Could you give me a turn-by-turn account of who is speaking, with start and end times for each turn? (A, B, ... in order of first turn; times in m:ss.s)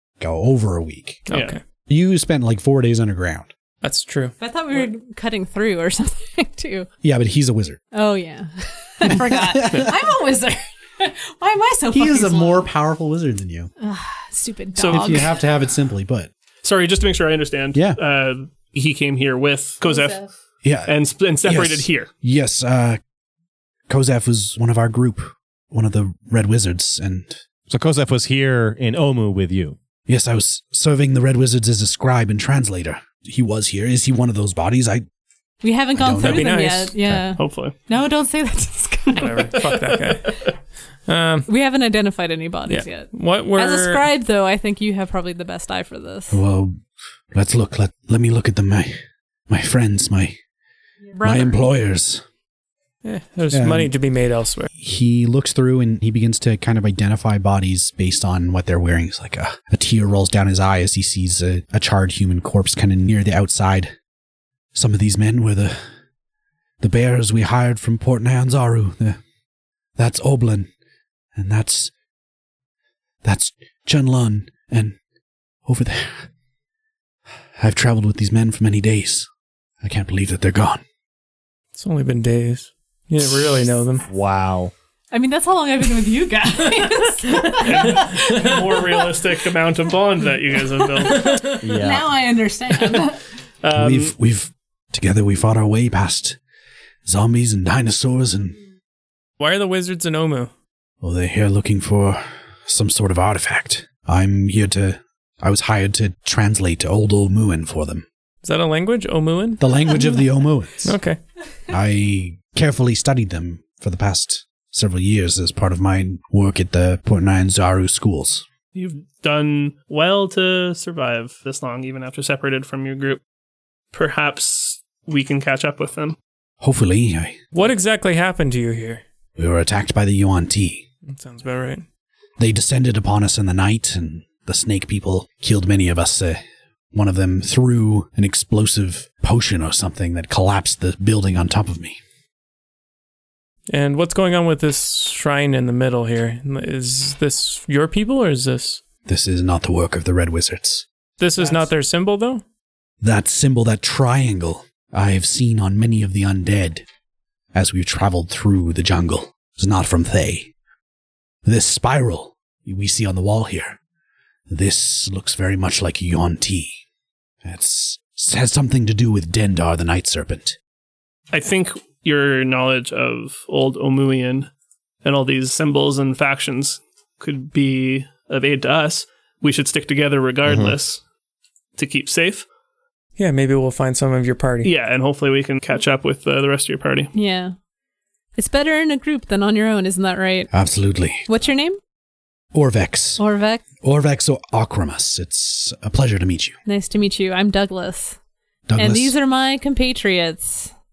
0:00.2-0:01.2 A
0:01.3-0:01.6 B
0:01.3-0:01.6 C
0:01.8-0:03.5 A
0:03.8-0:04.3 B
0:04.4-0:06.9 D
0:07.0-0:07.8 A
0:07.9-0:12.7 D
0:09.0-0:09.9 A
0:11.9-0:13.7 A
0:13.8-0:15.4 D
0:14.8-0:15.2 C
0:14.9-0:16.3 A
0:16.6-0:20.2 C
0:17.7-0:18.0 A
0:19.8-0:20.2 D
0:20.6-0:23.0 A
0:20.9-0:22.1 C
0:23.9-0:27.4 A
0:27.7-0:29.8 E
0:30.1-0:35.0 A
0:35.6-0:39.7 D
0:35.9-0:37.2 A
0:36.2-0:37.0 B
0:37.4-0:37.8 C
0:39.1-0:40.4 B
0:41.1-0:41.5 B
0:41.5-0:46.4 D
0:42.7-0:44.1 B
0:46.3-0:46.8 A
0:47.3-0:49.0 A
0:49.5-0:50.4 A
0:51.1-0:51.6 D
0:51.2-0:52.2 A
0:53.0-0:54.7 B
0:53.5-0:53.9 A
0:54.8-1:03.9 A
1:04.7-1:05.8 A
1:06.8-1:09.2 A
1:10.0-1:10.7 A
1:11.4-1:11.9 A
1:13.2-1:15.0 A
1:15.6-1:16.3 A
1:17.6-1:19.3 A
1:19.8-1:20.8 A
1:21.7-1:24.0 B
1:24.1-1:24.7 E
1:25.1-1:29.2 D
1:27.6-1:31.5 C
1:31.0-1:33.2 D
1:31.2-1:31.6 B
1:31.6-1:32.1 E
1:33.6-1:34.1 C
1:33.7-1:36.4 A
1:37.0-1:38.6 A
1:39.4-1:40.5 B
1:41.0-1:48.0 A
1:48.4-1:49.6 B
1:49.6-1:50.9 A
1:50.8-1:51.2 B
1:51.7-1:58.4 A
1:58.7-2:03.2 C
2:03.9-2:06.2 C
2:06.6-2:07.4 A
2:07.5-2:09.0 B
2:09.4-2:10.8 A
2:11.0-2:11.8 B
2:12.4-2:16.4 A
2:16.9-2:22.0 A
2:23.7-2:28.8 B
2:29.0-2:30.8 A
2:31.2-2:32.4 B
2:33.0-2:36.8 A
2:37.5-2:40.5 A
2:41.4-2:43.8 A
2:44.5-2:46.8 A
2:47.4-2:50.6 A
2:51.3-2:54.5 C
2:55.0-3:01.0 C
3:00.4-3:00.7 E
3:01.8-3:02.4 C
3:03.2-3:04.7 B
3:04.6-3:07.1 C
3:07.1-3:07.5 D
3:08.4-3:10.5 D
3:10.5-3:11.3 A
3:11.3-3:11.8 D
3:12.5-3:13.2 A
3:13.2-3:13.6 D
3:13.8-3:16.6 A
3:16.6-3:18.2 D
3:18.7-3:19.2 A
3:18.8-3:20.7 D